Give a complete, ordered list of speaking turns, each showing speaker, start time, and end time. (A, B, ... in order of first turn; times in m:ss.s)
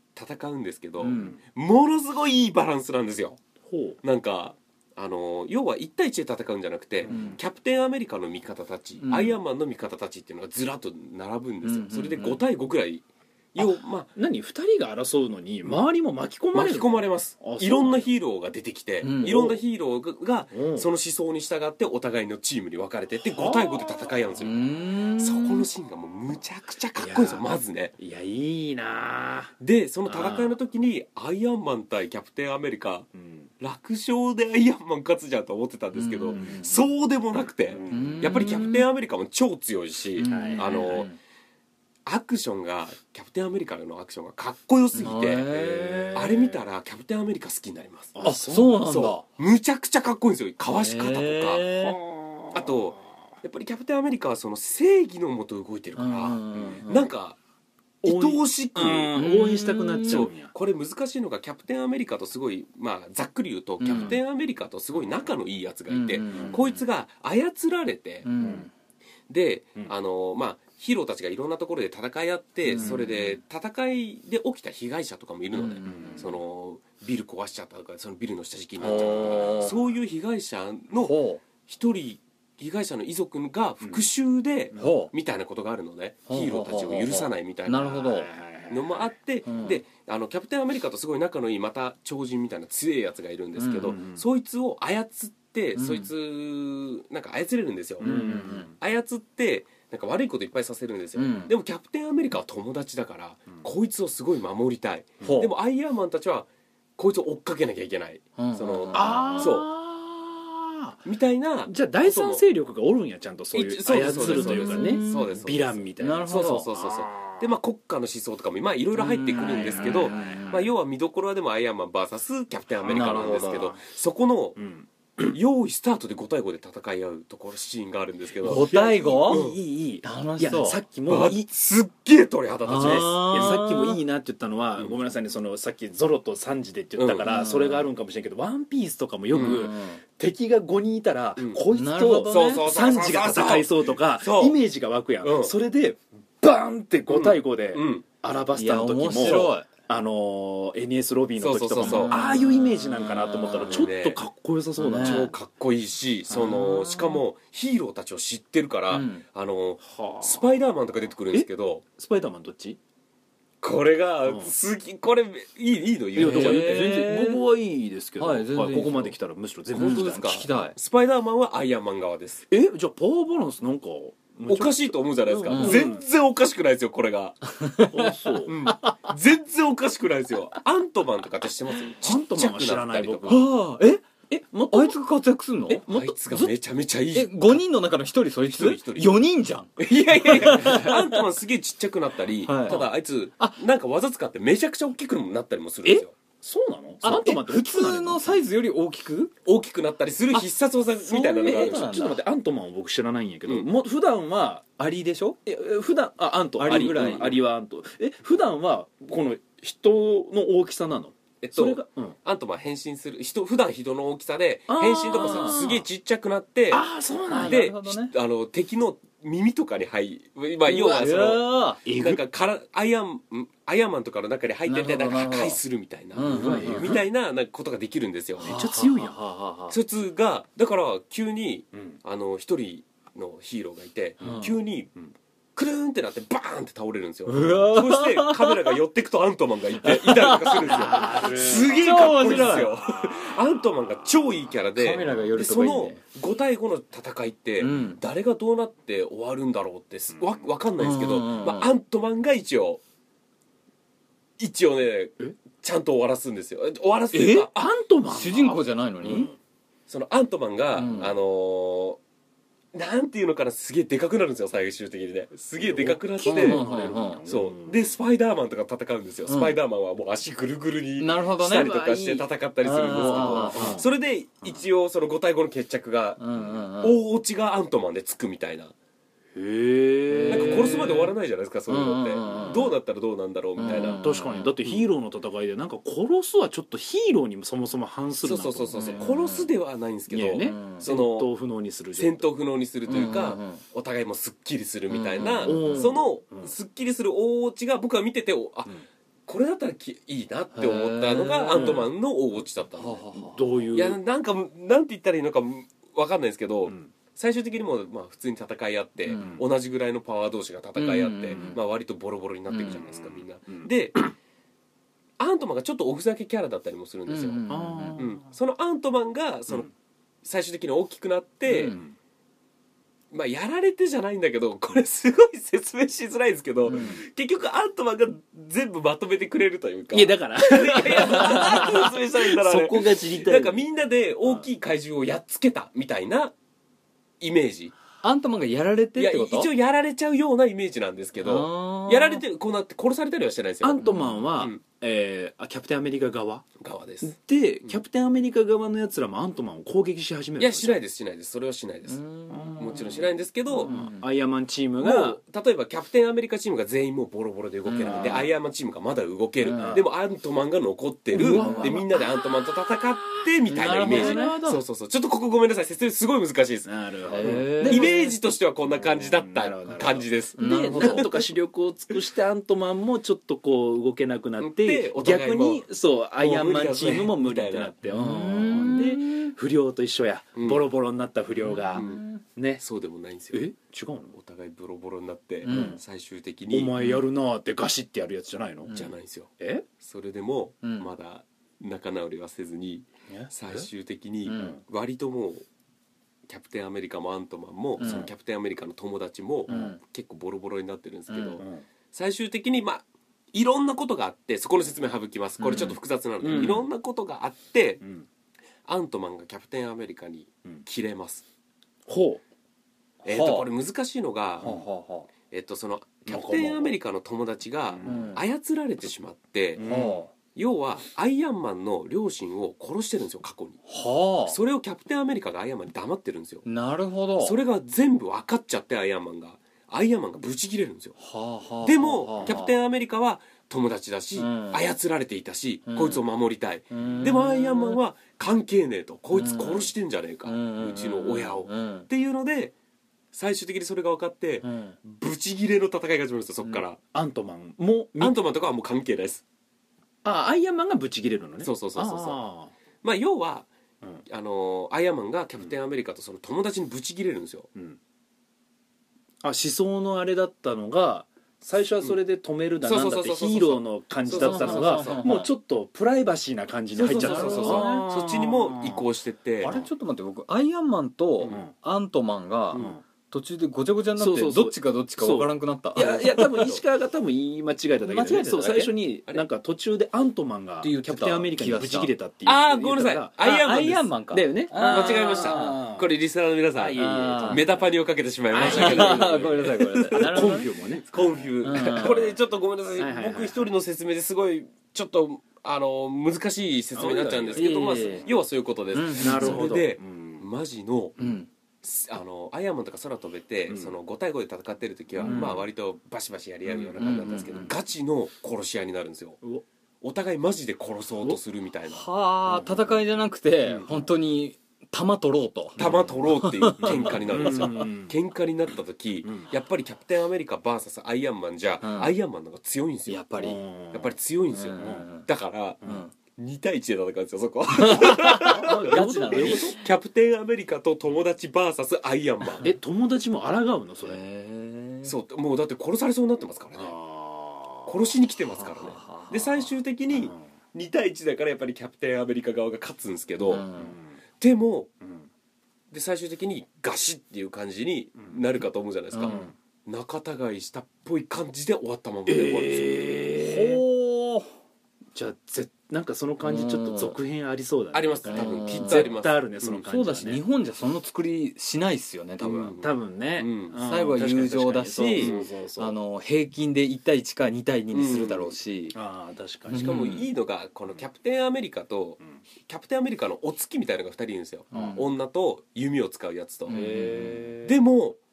0:00.2-0:03.4 A
0:01.0-0:01.4 B
0:01.1-0:01.4 C
0:03.6-0:04.0 C
0:04.0-0:14.1 A
0:07.0-0:07.4 C
0:07.1-0:07.4 B
0:09.0-0:09.4 B
0:11.6-0:12.4 B
0:13.6-0:18.1 C
0:16.5-0:27.9 A
0:19.0-0:19.4 B
0:19.2-0:19.6 C
0:20.5-0:20.9 C
0:23.2-0:24.4 C
0:24.4-0:25.7 B
0:27.0-0:30.5 C
0:29.6-0:33.1 A
0:33.2-0:33.5 C
0:33.6-0:41.1 A
0:35.9-0:36.8 B
0:37.7-0:38.3 C
0:37.9-0:38.8 B
0:40.2-0:41.2 B
0:40.2-0:41.0 C
0:42.1-0:45.5 A
0:45.0-0:46.3 B
0:45.5-0:46.6 C
0:46.1-0:48.2 A
0:48.2-0:48.9 C
0:48.2-0:49.2 B
0:48.8-0:51.7 A
0:50.7-0:52.0 B
0:51.8-0:52.8 C
0:52.5-0:57.4 A
0:56.0-0:57.1 B
0:56.5-0:56.8 C
0:58.0-0:59.2 A
0:58.0-1:00.5 C
0:59.1-1:00.3 B
1:00.1-1:08.3 A
1:03.8-1:04.2 B
1:03.9-1:04.2 C
1:05.9-1:06.8 B
1:06.3-1:06.6 C
1:08.2-1:08.7 B
1:08.4-1:08.7 C
1:09.3-1:28.0 A
1:12.7-1:13.1 B
1:12.8-1:13.3 C
1:15.5-1:16.3 B
1:15.8-1:16.3 C
1:18.8-1:19.9 C
1:18.8-1:19.7 B
1:21.0-1:21.4 B
1:24.8-1:25.1 B
1:26.3-1:28.3 B
1:27.9-1:29.1 C
1:28.7-1:49.7 A
1:29.5-1:29.8 B
1:33.6-1:34.0 B
1:33.9-1:34.2 C
1:35.8-1:36.1 B
1:38.0-1:38.8 C
1:38.0-1:38.7 B
1:41.2-1:41.5 B
1:45.2-1:45.5 B
1:48.4-1:49.6 B
1:48.9-1:51.0 C
1:51.0-1:52.4 A
1:51.7-1:57.4 C
1:53.5-2:04.6 A
1:54.1-1:55.4 B
1:56.0-1:56.7 B
1:59.0-2:00.6 B
1:59.4-2:00.7 C
2:02.8-2:03.8 C
2:02.9-2:03.6 B
2:04.6-2:05.4 C
2:05.2-2:08.7 A
2:08.4-2:11.5 C
2:08.4-2:09.4 B
2:09.3-2:09.6 A
2:10.0-2:10.8 B
2:11.1-2:13.6 A
2:12.7-2:14.0 B
2:12.7-2:35.3 C
2:17.0-2:17.3 A
2:17.2-2:17.9 B
2:19.3-2:20.0 B
2:19.4-2:19.7 A
2:21.7-2:22.7 B
2:22.3-2:24.6 A
2:25.2-2:25.5 A
2:27.1-2:28.1 A
2:28.6-2:29.7 B
2:29.2-2:29.5 A
2:31.4-2:32.2 A
2:31.8-2:33.9 B
2:33.6-2:34.2 A
2:34.8-2:35.3 B
2:35.0-2:41.8 A
2:36.3-2:36.6 C
2:36.3-2:37.2 B
2:38.9-2:39.2 B
2:39.9-2:40.5 C
2:41.3-2:42.8 C
2:43.6-2:46.9 A
2:44.3-2:44.5 C
2:46.2-2:50.4 C
2:46.2-2:47.4 B
2:48.2-2:49.2 B
2:49.8-2:50.8 B
2:49.8-2:52.4 A
2:52.5-2:56.0 C
2:54.5-2:57.4 A
2:55.5-2:55.9 B
2:57.6-2:59.1 B
2:57.9-2:58.5 C
2:58.5-3:03.5 A
3:02.0-3:03.5 C
3:03.3-3:04.1 B
3:04.3-3:05.0 C
3:04.7-3:05.8 B
3:05.7-3:06.2 C
3:05.8-3:07.6 A
3:07.1-3:09.7 B
3:08.5-3:09.2 A
3:09.8-3:16.1 A
3:10.1-3:10.9 C
3:10.3-3:11.2 B
3:12.5-3:12.9 B
3:16.4-3:18.4 C
3:17.0-3:19.3 B
3:19.4-3:22.0 A
3:21.0-3:22.2 B
3:21.4-3:24.7 C
3:24.8-3:25.4 B
3:25.5-3:32.2 C
3:26.6-3:27.4 B
3:26.7-3:27.3 A
3:31.4-3:36.9 A
3:34.7-3:35.8 C
3:35.2-3:35.6 B
3:36.7-3:37.6 C
3:37.3-3:38.1 B
3:37.4-3:48.5 A
3:40.7-3:41.8 B
3:41.8-3:42.2 C
3:44.7-3:45.6 B
3:46.2-3:47.0 B
3:46.2-3:47.0 C
3:48.4-3:49.2 C
3:48.4-3:49.8 B
3:49.7-3:54.9 A
3:54.2-3:54.5 B
3:55.6-4:12.8 A
3:57.3-3:58.8 B
3:59.8-4:02.8 B
4:00.5-4:04.2 C
4:04.8-4:06.0 B
4:07.6-4:08.0 B
4:10.1-4:10.5 C
4:10.8-4:11.7 B
4:14.4-4:17.5 A
4:17.1-4:19.4 C
4:18.1-4:19.3 B
4:19.9-4:22.0 A
4:20.8-4:21.1 B
4:22.7-4:26.6 A
4:25.6-4:27.9 C
4:26.2-4:27.2 B
4:27.3-4:38.7 A
4:29.3-4:29.6 B
4:31.0-4:33.8 B
4:32.9-4:33.9 C
4:36.2-4:37.0 B
4:39.3-4:41.0 C
4:40.1-4:41.1 B
4:40.3-4:44.0 A
4:41.7-4:42.7 B
4:42.3-4:42.7 C
4:43.6-4:44.6 B
4:44.0-4:49.1 C
4:48.2-4:51.3 A
4:48.7-4:49.5 B
4:50.1-4:52.3 C
4:50.4-4:50.9 B
4:51.9-5:03.0 A
4:52.9-4:53.6 B
4:54.9-4:56.0 B
4:55.4-4:56.5 C
5:00.6-5:01.9 B
5:01.6-5:01.9 C
5:02.8-5:03.4 B
5:03.2-5:04.0 C
5:03.7-5:14.1 A
5:09.1-5:09.4 B
5:09.2-5:09.4 C
5:10.8-5:11.6 B
5:12.5-5:12.8 B
5:12.7-5:13.7 C
5:15.2-5:17.4 A
5:17.1-5:18.0 B
5:17.5-5:18.2 C
5:18.0-5:19.7 A
5:20.2-5:21.8 A
5:21.5-5:21.8 B
5:23.1-5:36.3 A
5:26.7-5:27.0 B
5:26.7-5:27.0 C
5:29.9-5:33.6 C
5:37.2-5:37.7 A
5:38.0-5:39.5 B
5:39.0-5:44.6 A
5:41.2-5:42.2 B
5:43.6-5:46.5 C
5:46.6-5:47.1 A
5:47.0-5:50.8 C
5:50.4-5:52.0 A
5:51.9-5:54.1 B
5:52.3-5:53.0 C
5:52.6-5:53.8 A
5:53.6-5:55.2 C
5:54.8-6:11.2 A
5:57.7-5:58.2 B
5:57.8-5:58.3 C
5:59.4-5:59.8 B
5:59.6-5:59.9 C
6:01.1-6:02.8 C
6:01.1-6:01.8 B
6:03.5-6:04.4 B
6:03.6-6:04.6 C
6:06.6-6:08.1 C
6:07.1-6:08.1 B
6:08.7-6:22.6 C
6:10.4-6:11.1 B
6:14.4-6:17.7 A
6:17.9-6:19.3 B
6:20.4-6:20.6 A
6:21.4-6:22.2 B
6:21.8-6:22.0 A
6:22.6-6:23.5 A
6:23.3-6:24.2 C
6:24.1-6:26.7 A
6:25.4-6:25.8 B
6:25.5-6:25.8 C
6:26.5-6:28.7 C
6:28.7-6:28.9 B
6:28.7-6:35.4 A
6:29.4-6:29.7 C
6:30.6-6:30.9 B
6:33.1-6:33.7 C
6:34.3-6:34.6 B
6:36.3-6:47.8 A
6:37.8-6:38.1 B
6:37.8-6:38.1 C
6:39.5-6:39.8 B
6:39.5-6:39.8 C
6:41.1-6:41.4 B
6:41.4-6:41.6 C
6:45.4-6:45.8 B
6:46.2-6:46.7 C
6:48.7-6:51.2 A
6:51.9-6:52.2 C
6:53.0-6:53.5 B
6:53.0-6:54.6 A
6:54.4-6:55.1 B
6:55.3-6:59.7 A
6:56.1-6:56.8 C
6:57.7-6:58.1 C
6:57.8-6:58.2 B
6:59.6-7:00.0 C
6:59.6-7:00.1 B
7:00.4-7:03.6 A
7:03.7-7:04.4 B
7:04.3-7:06.5 A
7:06.4-7:07.4 B
7:07.2-7:11.0 A
7:11.0-7:12.5 B
7:11.6-7:22.5 A
7:14.2-7:14.6 B
7:15.7-7:16.0 B
7:16.7-7:17.8 B
7:19.1-7:19.7 B
7:20.3-7:21.9 B
7:23.1-7:26.8 A
7:24.4-7:24.8 B
7:26.9-7:28.2 C
7:28.0-7:29.2 A
7:30.0-7:32.5 C
7:31.4-7:32.2 A
7:32.8-7:33.5 A
7:34.1-7:37.5 A
7:39.2-7:48.9 C
7:42.6-7:45.2 A
7:44.1-7:45.3 B
7:46.8-7:49.6 A
7:46.8-7:47.9 B
7:49.4-7:56.5 B
7:49.4-7:49.7 C
7:52.5-7:52.8 C
7:54.0-8:03.1 C
7:55.8-7:56.6 A
7:57.8-7:58.7 B
8:00.6-8:01.9 B
8:02.2-8:04.0 A
8:03.2-8:05.7 B
8:04.1-8:05.9 C
8:04.5-8:21.0 A
8:06.5-8:07.7 C
8:06.8-8:07.4 B
8:08.3-8:09.4 C
8:08.4-8:10.5 B
8:09.9-8:12.2 C
8:11.4-8:12.1 B
8:12.8-8:13.5 C
8:16.7-8:18.1 C
8:17.4-8:18.0 B
8:18.7-8:19.5 B
8:19.0-8:20.3 C
8:21.0-8:21.3 B
8:21.6-8:29.2 A
8:23.5-8:23.8 C
8:25.0-8:25.3 C
8:25.0-8:25.4 B
8:26.5-8:27.5 C
8:26.8-8:27.5 B
8:29.8-8:31.9 A
8:31.7-8:37.6 B
8:32.3-8:32.8 C
8:33.5-8:33.8 C
8:35.6-8:36.0 C
8:35.6-8:43.0 A
8:36.6-8:38.0 C
8:39.0-8:39.3 C
8:41.6-8:41.9 B
8:42.9-8:43.4 B
8:43.2-8:44.0 C
8:43.7-8:52.5 A
8:44.3-8:45.1 B
8:44.6-8:44.9 C
8:45.6-8:45.9 B
8:47.5-8:49.6 B
8:48.2-8:49.6 C
8:52.4-8:54.0 C
8:53.8-8:54.9 B
8:54.8-8:56.8 A
8:56.6-8:57.7 C
8:57.6-9:03.5 A
8:58.4-8:59.4 B
9:03.2-9:03.8 B
9:03.5-9:03.9 C
9:04.2-9:04.7 A
9:05.7-9:12.9 A
9:08.9-9:09.3 B
9:09.1-9:09.3 C
9:12.1-9:13.6 C
9:13.2-9:14.3 B
9:14.9-9:20.2 C
9:16.2-9:17.0 B
9:17.7-9:19.6 A
9:18.1-9:18.9 B
9:19.6-9:22.6 B
9:22.2-9:23.6 A
9:22.6-9:25.8 C
9:23.6-9:28.8 B
9:24.8-9:25.3 A
9:27.7-9:28.3 A
9:28.7-9:29.9 C
9:29.5-9:30.1 B
9:29.5-9:36.6 A
9:34.5-9:34.8 B
9:34.5-9:34.8 C
9:36.5-9:37.3 B
9:36.5-9:37.6 C
9:37.4-9:38.0 A